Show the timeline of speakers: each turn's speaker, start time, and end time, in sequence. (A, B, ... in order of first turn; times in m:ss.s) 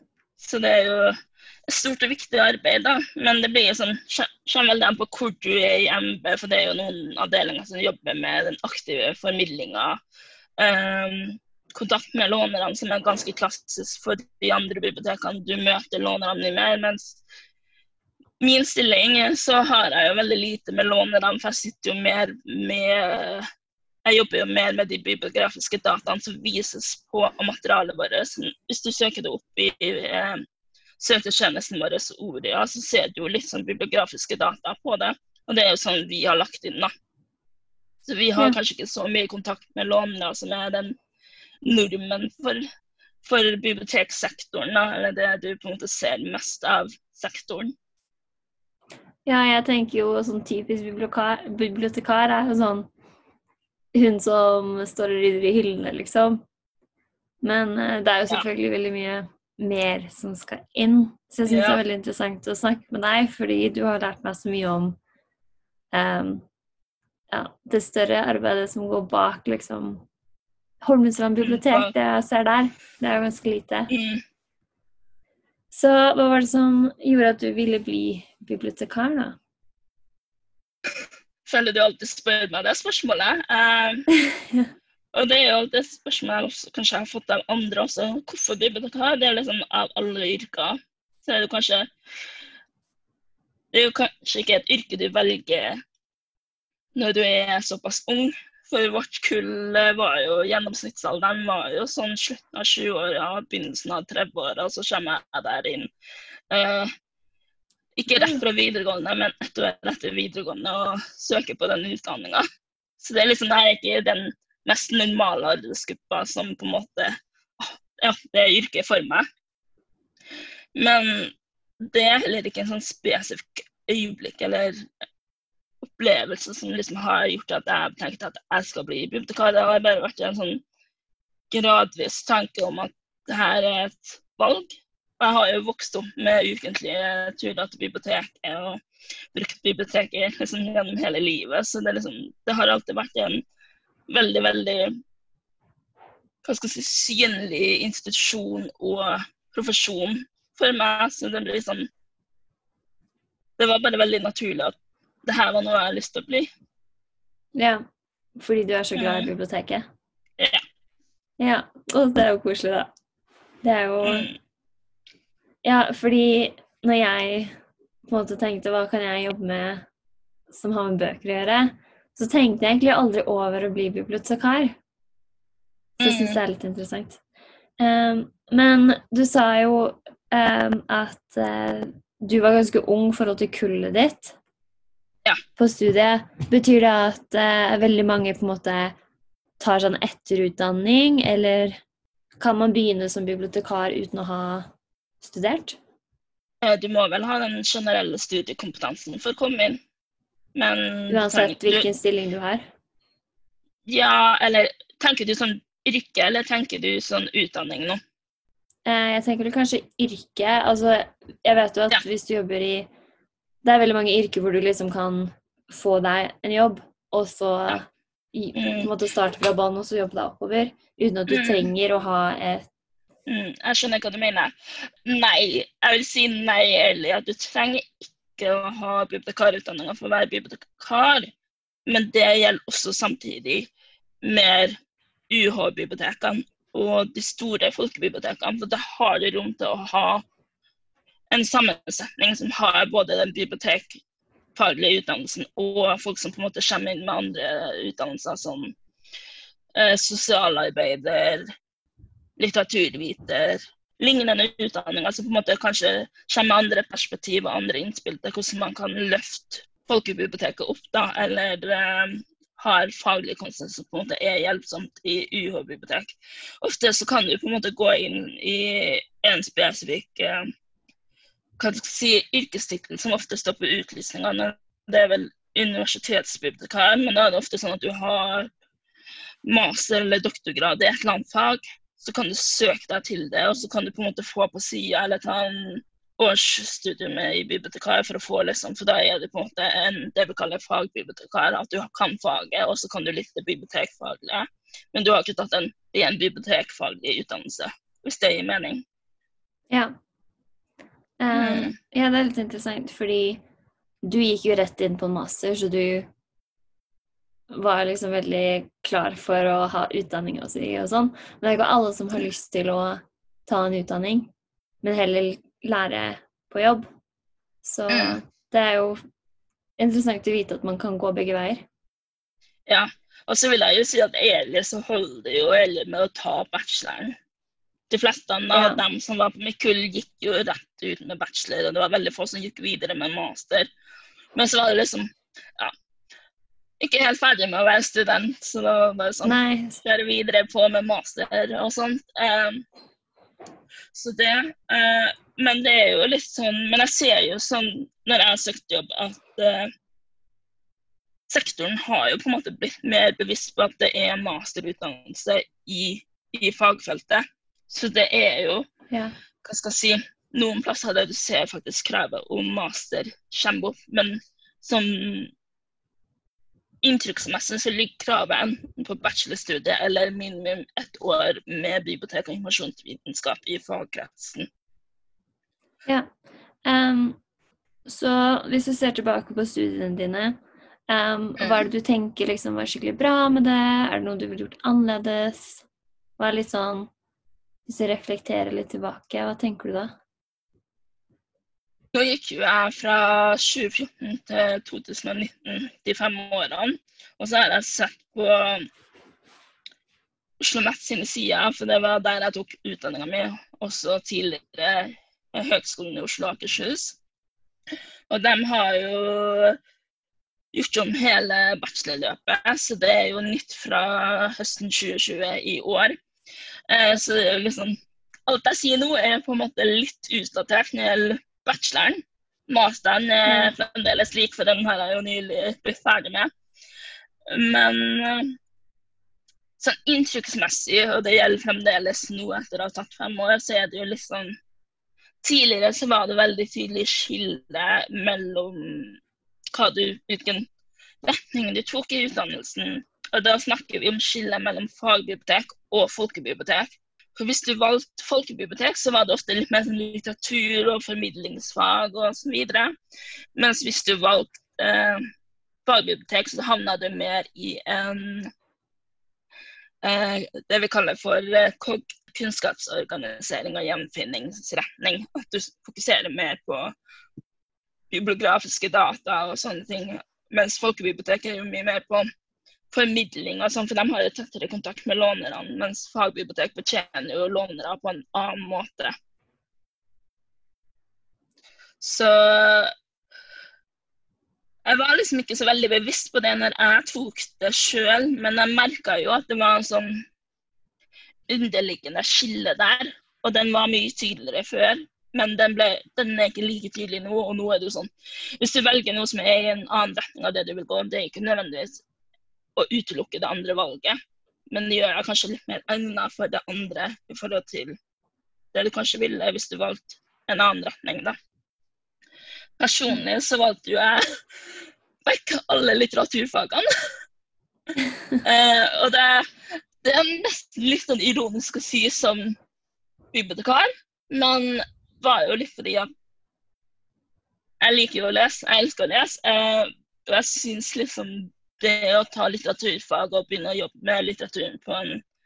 0:00.4-0:01.2 A
0:01.7-0:10.0 A
0:10.6-0:17.2 A
0:18.4-0:23.4 A
0:24.0-0:30.4 A
0:31.0-0:36.9 A
0:38.0-0:41.0 A
0:41.6-0:42.6 A
0:43.2-0:47.7 A
0:49.2-0:52.9 B
0:53.9-0:56.4 B
0:57.4-1:05.0 B
1:01.5-1:01.8 A
1:05.9-1:06.4 B
1:07.3-1:10.0 B
1:10.8-1:13.9 B
1:11.4-1:11.9 A
1:13.9-1:14.2 A
1:15.7-1:19.4 B
1:21.4-1:24.0 A
1:24.2-1:24.6 B
1:25.1-1:31.9 A
1:33.7-1:35.8 A
1:36.9-1:45.9 A
1:46.5-1:46.9 A
1:48.0-1:52.4 A
1:48.1-1:48.4 B
1:53.0-1:59.2 A
2:00.8-2:04.8 A
2:05.8-2:10.6 A
2:11.5-2:18.8 A
2:19.3-2:23.4 A
2:24.1-2:24.9 A
2:26.4-2:31.9 A
2:33.6-2:36.5 A
2:37.5-2:37.8 B
2:38.4-2:39.9 B
2:39.0-2:39.3 A
2:41.4-2:42.9 B
2:43.6-2:44.3 B
2:44.0-2:44.4 A
2:45.6-2:47.5 B
2:48.1-2:49.8 B
2:50.5-2:54.8 B
2:56.0-2:57.2 B
2:56.0-2:56.4 A
2:57.8-3:04.4 B
3:05.6-3:08.9 B
3:09.6-3:11.8 B
3:12.4-3:15.8 B
3:16.6-3:19.8 A
3:20.5-3:21.9 A
3:21.1-3:22.7 B
3:23.8-3:28.0 A
3:28.8-3:32.9 B
3:33.6-3:42.7 B
3:38.6-3:38.9 A
3:41.3-3:41.7 A
3:43.3-3:44.5 A
3:45.0-3:51.3 A
3:51.9-3:53.7 A
3:54.2-3:54.8 A
3:55.3-4:00.2 A
4:01.3-4:04.0 A
4:04.6-4:08.7 A
4:09.8-4:11.5 A
4:12.4-4:30.4 A
4:31.6-4:38.5 A
4:39.4-4:58.8 A
5:01.2-5:03.4 B
5:01.3-5:01.7 A
5:04.0-5:06.1 B
5:07.5-5:14.3 B
5:14.8-5:16.9 B
5:17.6-5:19.0 B
5:17.9-5:18.2 A
5:19.8-5:21.6 B
5:22.7-5:27.1 A
5:27.9-5:33.7 A
5:28.5-5:28.8 B
5:34.3-5:35.7 A
5:36.8-5:42.6 A
5:39.2-5:39.8 B
5:43.9-5:49.7 A
5:51.3-5:58.7 A
5:59.4-6:05.3 A
6:06.8-6:14.5 A
6:16.6-6:17.2 B
6:17.8-6:20.4 B
6:20.9-6:25.6 B
6:21.4-6:21.7 A
6:26.2-6:26.9 B
6:27.6-6:30.0 B
6:31.9-6:38.6 A
6:40.4-6:47.0 A
6:48.1-6:49.6 A
6:50.5-6:56.0 A
6:56.7-7:06.3 A
7:03.3-7:03.5 B
7:07.3-7:08.4 A
7:09.6-7:14.4 A
7:15.2-7:19.0 A
7:19.5-7:20.5 A
7:21.0-7:32.7 A
7:33.4-7:35.0 A
7:35.6-7:38.3 A
7:39.8-7:46.7 A
7:47.9-7:52.0 A
7:52.7-7:58.9 A
8:01.8-8:02.7 A
8:04.6-8:10.0 A
8:11.3-8:17.9 A
8:18.4-8:21.8 A
8:22.6-8:24.0 A
8:24.5-8:27.8 A
8:28.5-8:31.2 A
8:32.6-8:34.0 A
8:35.0-8:36.6 A
8:38.2-8:39.2 A
8:39.8-8:42.4 A
8:43.1-8:45.9 A
8:47.6-8:55.0 A